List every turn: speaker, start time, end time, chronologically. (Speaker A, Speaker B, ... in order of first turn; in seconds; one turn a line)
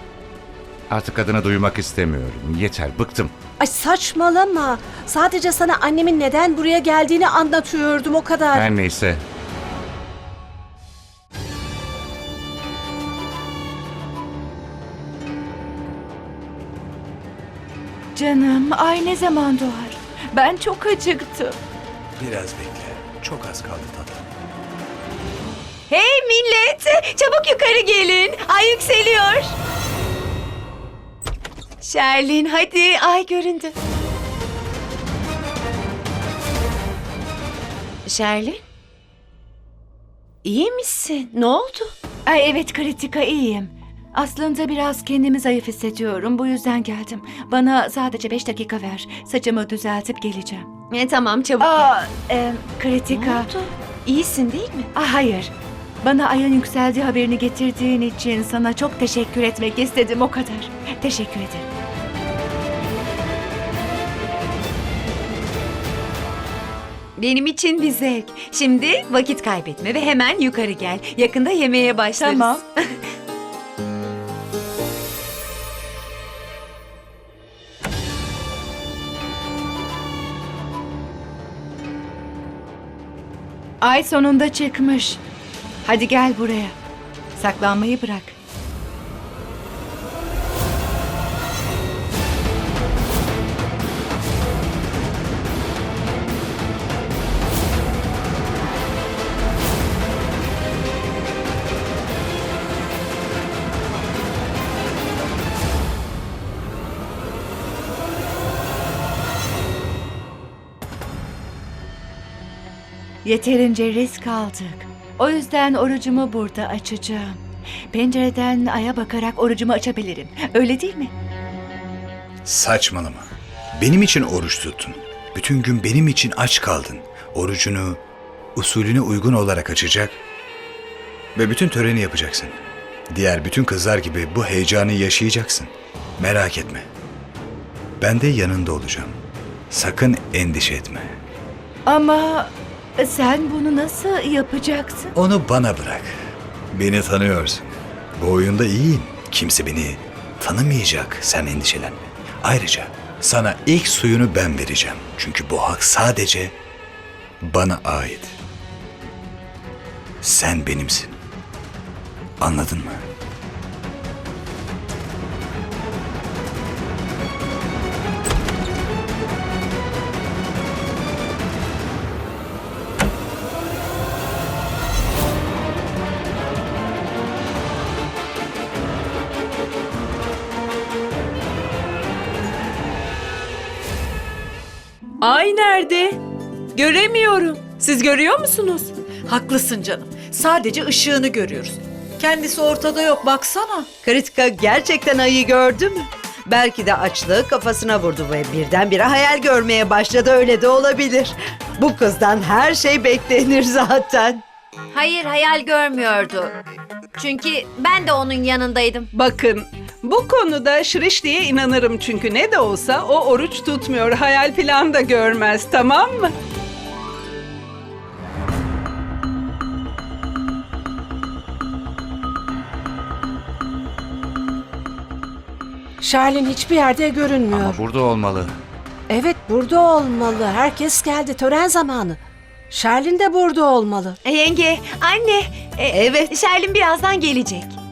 Speaker A: 0.9-3.3
Speaker B: 3.6-8.7
Speaker A: 8.5-9.2
Speaker C: 18.1-21.6
Speaker D: 22.2-24.2
Speaker E: 25.9-29.5
Speaker E: 31.8-33.7
Speaker E: 38.0-38.6
Speaker E: 40.4-41.9
Speaker C: 42.2-50.7
Speaker E: 50.9-51.9
Speaker C: 51.6-53.5
Speaker E: 53.1-54.9
Speaker C: 54.9-55.5
Speaker C: 56.0-61.6
Speaker E: 67.2-72.7
Speaker C: 72.2-72.6
Speaker C: 83.8-85.2
Speaker C: 85.8-86.7
Speaker C: 87.4-88.3
Speaker C: 113.2-117.4
Speaker C: 117.9-121.1
Speaker D: 122.4-128.0
Speaker D: 128.6-130.2
Speaker D: 131.3-132.6
Speaker D: 133.1-136.9
Speaker D: 138.0-139.2
Speaker D: 139.7-141.2
Speaker C: 141.8-145.1
Speaker D: 145.2-146.1
Speaker D: 146.7-156.5
Speaker D: 157.4-158.3
Speaker D: 160.2-161.2
Speaker D: 162.4-163.1
Speaker F: 189.3-193.9
Speaker G: 194.0-204.4
Speaker H: 204.9-206.6
Speaker H: 207.1-209.1
Speaker I: 209.1-216.3
Speaker B: 226.0-227.8
Speaker A: 227.5-228.5
Speaker B: 229.1-232.2
Speaker B: 232.7-234.2
Speaker E: 234.2-237.7
Speaker G: 235.9-236.3